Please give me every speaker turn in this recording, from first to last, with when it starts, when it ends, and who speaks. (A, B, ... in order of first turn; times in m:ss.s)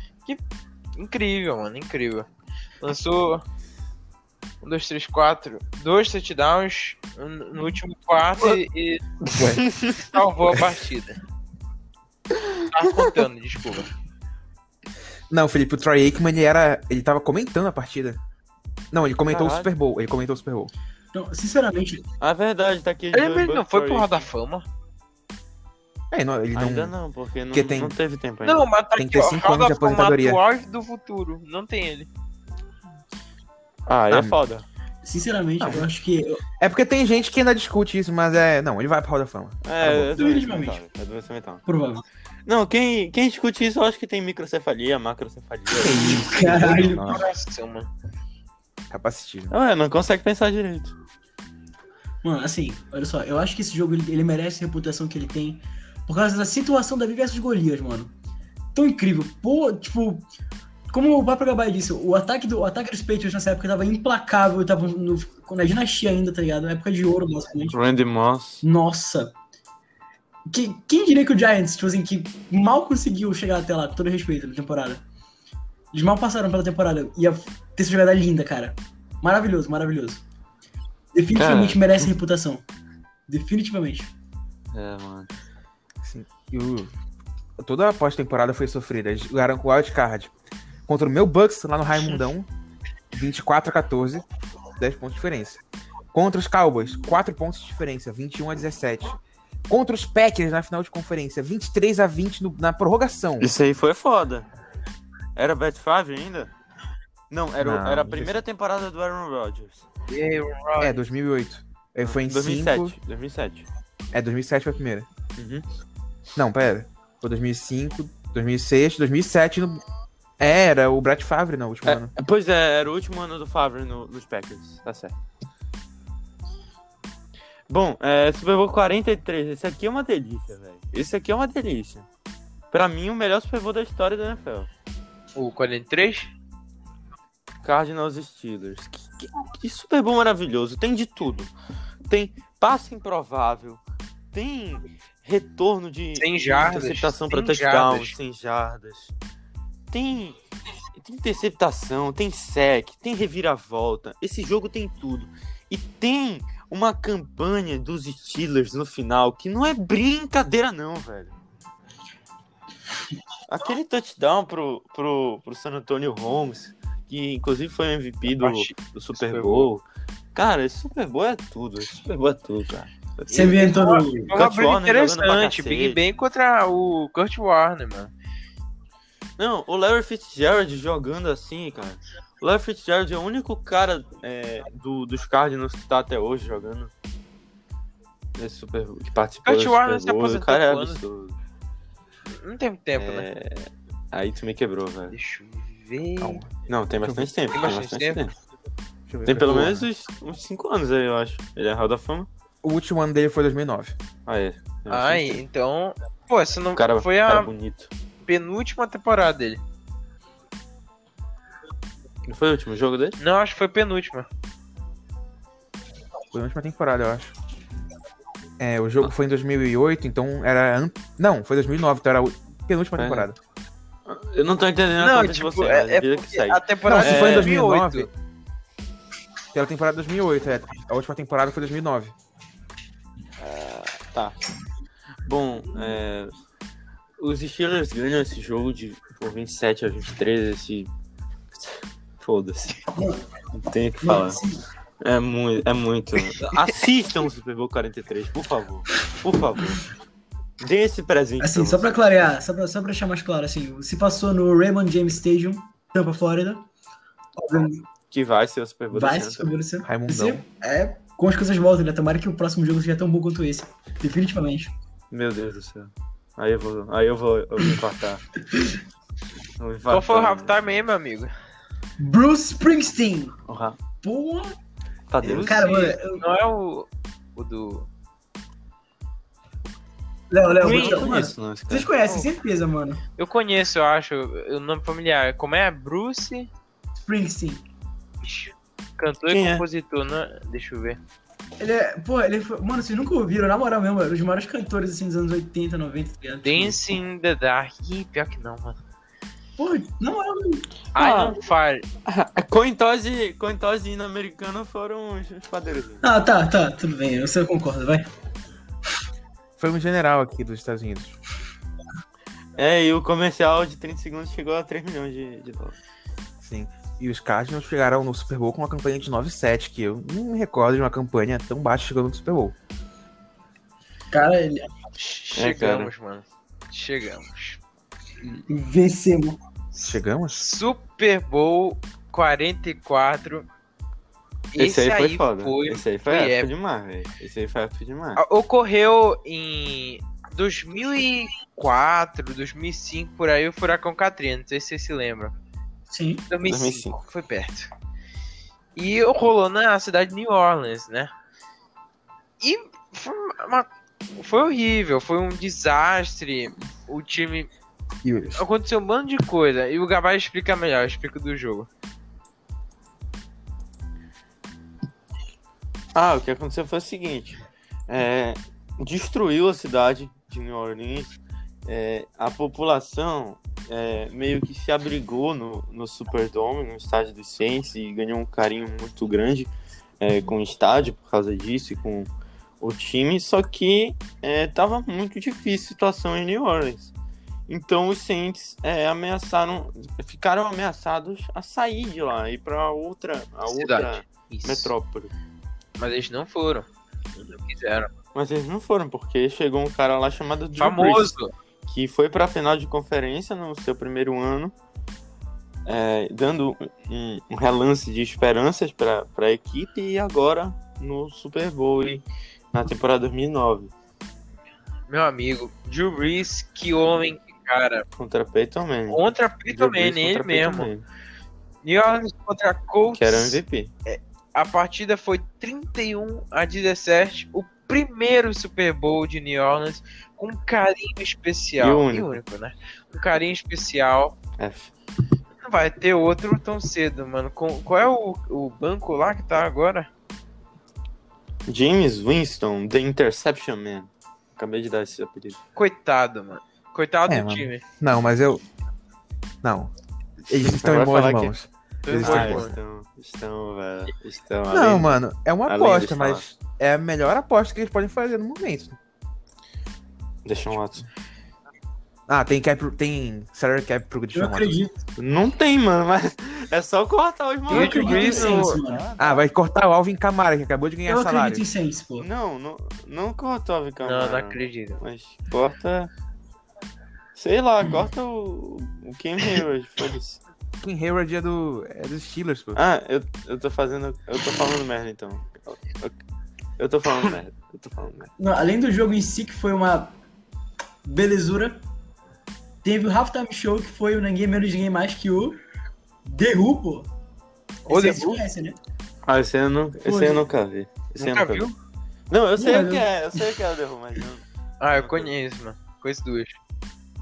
0:01.0-0:02.3 A
0:02.8-0:03.4 A
0:04.6-0:09.0 A
0:09.2-0:10.1 B
0:09.3-0:09.6 C
0:10.0-0:11.2 A
0:12.7-0:13.9 A
0:15.3-0:18.2 C
0:18.9-0:20.7 C
0:19.3-0:19.7 B
0:21.1-0:22.0 D
0:22.2-0:24.2 B
0:23.1-0:24.6 A
0:26.1-0:26.9 C
0:26.5-0:28.7 B
0:27.5-0:28.0 C
0:28.4-0:32.1 A
0:29.0-0:30.4 C
0:33.9-0:34.6 B
0:34.1-0:34.3 C
0:35.0-0:36.4 D
0:35.6-0:35.9 C
0:36.6-0:40.2 C
0:39.6-0:41.6 B
0:40.1-0:40.8 D
0:41.6-0:42.0 D
0:42.4-0:46.3 B
0:45.7-0:47.2 C
0:46.0-0:47.2 D
0:46.8-0:47.9 A
0:48.9-0:49.5 C
0:49.5-0:50.9 B
0:52.2-0:58.1 D
0:58.7-1:00.3 D
1:00.9-1:07.8 D
1:07.7-1:08.6 B
1:08.6-1:09.3 D
1:10.5-1:15.0 D
1:15.9-1:20.2 D
1:21.1-1:22.6 D
1:21.3-1:22.1 B
1:23.3-1:24.1 D
1:24.7-1:25.3 B
1:26.0-1:26.9 C
1:27.6-1:30.3 C
1:30.9-1:32.5 C
1:33.1-1:34.2 C
1:34.8-1:35.6 C
1:36.1-1:39.2 C
1:39.7-1:43.5 C
1:43.4-1:44.5 B
1:45.4-1:46.5 B
1:47.3-1:49.9 B
1:47.6-1:48.4 C
1:50.1-1:51.0 A
1:50.8-1:52.9 C
1:52.0-1:53.6 B
1:54.1-1:55.1 C
1:55.4-1:55.6 B
1:56.4-1:59.8 C
2:00.4-2:02.1 C
2:01.8-2:05.2 B
2:07.7-2:12.1 B
2:12.7-2:14.7 B
2:15.3-2:16.3 A
2:17.6-2:21.5 B
2:22.1-2:23.8 B
2:24.3-2:29.1 B
2:26.2-2:28.1 A
2:29.9-2:30.4 B
2:31.0-2:41.3 B
2:43.5-2:49.8 B
2:48.4-2:49.7 A
2:50.3-2:56.0 B
2:53.3-2:54.3 D
2:53.5-2:58.1 A
2:59.4-3:06.9 B
3:08.4-3:11.4 B
3:09.4-3:11.0 A
3:12.3-3:13.3 A
3:13.0-3:15.1 B
3:15.1-3:16.4 A
3:16.2-3:16.5 C
3:16.7-3:18.3 B
3:17.0-3:17.3 C
3:17.5-3:18.2 A
3:19.1-3:19.9 C
3:19.2-3:22.3 B
3:22.6-3:24.0 C
3:24.2-3:25.4 B
3:24.9-3:27.5 A
3:26.8-3:27.9 B
3:28.2-3:29.6 A
3:32.3-3:33.2 B
3:33.2-3:34.2 A
3:36.3-3:37.3 C
3:38.6-3:43.4 C
3:43.0-3:43.3 B
3:44.0-3:47.5 B
3:45.0-3:48.1 A
3:46.8-3:48.1 C
3:49.5-3:52.1 C
3:53.4-3:54.4 B
3:55.2-3:56.3 B
3:57.2-4:00.9 B
4:02.2-4:02.8 B
4:02.9-4:03.2 D
4:03.5-4:04.4 B
4:04.0-4:04.6 D
4:05.0-4:09.8 B
4:10.6-4:12.2 B
4:11.4-4:16.7 D
4:17.4-4:17.8 D
4:18.1-4:19.5 B
4:18.9-4:24.7 D
4:19.8-4:20.4 C
4:25.1-4:28.2 B
4:28.5-4:28.8 D
4:29.6-4:30.5 B
4:29.9-4:31.3 A
4:32.0-4:33.4 D
4:33.5-4:33.8 B
4:34.0-4:34.6 D
4:35.1-4:35.7 B
4:35.2-4:37.9 A
4:35.2-4:36.2 D
4:40.3-4:43.0 D
4:40.6-4:41.9 B
4:40.6-4:41.1 A
4:43.2-4:46.5 A
4:46.9-4:47.6 D
4:48.2-4:51.0 A
4:49.3-4:49.6 B
4:51.6-4:56.8 D
4:56.4-4:58.8 A
4:59.6-5:00.7 D
5:00.9-5:01.9 A
5:01.0-5:01.4 B
5:02.0-5:06.0 B
5:06.0-5:08.1 D
5:09.6-5:11.2 C
5:12.6-5:15.8 B
5:16.4-5:22.5 C
5:24.1-5:24.7 D
5:25.0-5:27.6 A
5:25.3-5:25.9 B
5:28.2-5:29.4 D
5:29.7-5:33.4 A
5:29.8-5:30.4 C
5:34.5-5:36.5 A
5:34.6-5:38.2 B
5:38.2-5:45.3 A
5:45.9-5:46.3 D
5:46.3-5:47.7 A
5:46.4-5:47.0 B
5:48.8-5:51.1 A
5:52.4-5:57.5 A
5:58.0-5:58.4 C
5:58.4-6:01.7 A
6:05.9-6:22.1 B
6:22.6-6:26.9 B
6:27.5-6:35.1 B
6:33.5-6:34.7 A
6:35.8-6:37.9 A
6:38.1-6:41.1 B
6:40.6-6:41.3 A
6:41.6-6:44.5 B
6:45.6-6:53.7 B
6:54.9-6:57.8 A
6:58.0-7:00.8 B
6:58.9-7:00.7 A
7:01.6-7:14.2 A
7:03.0-7:03.7 B
7:11.6-7:12.2 B
7:14.4-7:14.7 B
7:15.4-7:19.9 A
7:21.5-7:25.4 B
7:25.6-7:27.6 A
7:27.1-7:28.4 C
7:29.4-7:29.7 C
7:30.3-7:32.5 C
7:30.3-7:31.3 B
7:31.8-7:32.5 A
7:32.0-7:36.2 B
7:34.5-7:38.8 C
7:40.2-7:40.8 B
7:42.1-7:44.6 C
7:44.1-7:44.8 D
7:45.0-7:49.1 B
7:47.5-7:48.8 D
7:47.5-7:48.6 A
7:49.0-7:51.4 C
7:50.9-7:52.1 D
7:52.0-7:55.9 B
7:53.8-7:54.8 A
7:57.1-8:00.2 B
8:00.6-8:02.6 C
8:02.5-8:06.0 B
8:06.6-8:08.1 B
8:08.2-8:09.9 D
8:10.8-8:11.6 D
8:12.6-8:15.4 D
8:16.0-8:16.9 D
8:17.6-8:18.6 D
8:17.7-8:18.2 A
8:19.0-8:21.5 B
8:19.8-8:20.2 D
8:21.0-8:21.5 A
8:22.1-8:24.2 B
8:22.4-8:22.9 D
8:24.6-8:26.4 A
8:24.8-8:25.1 B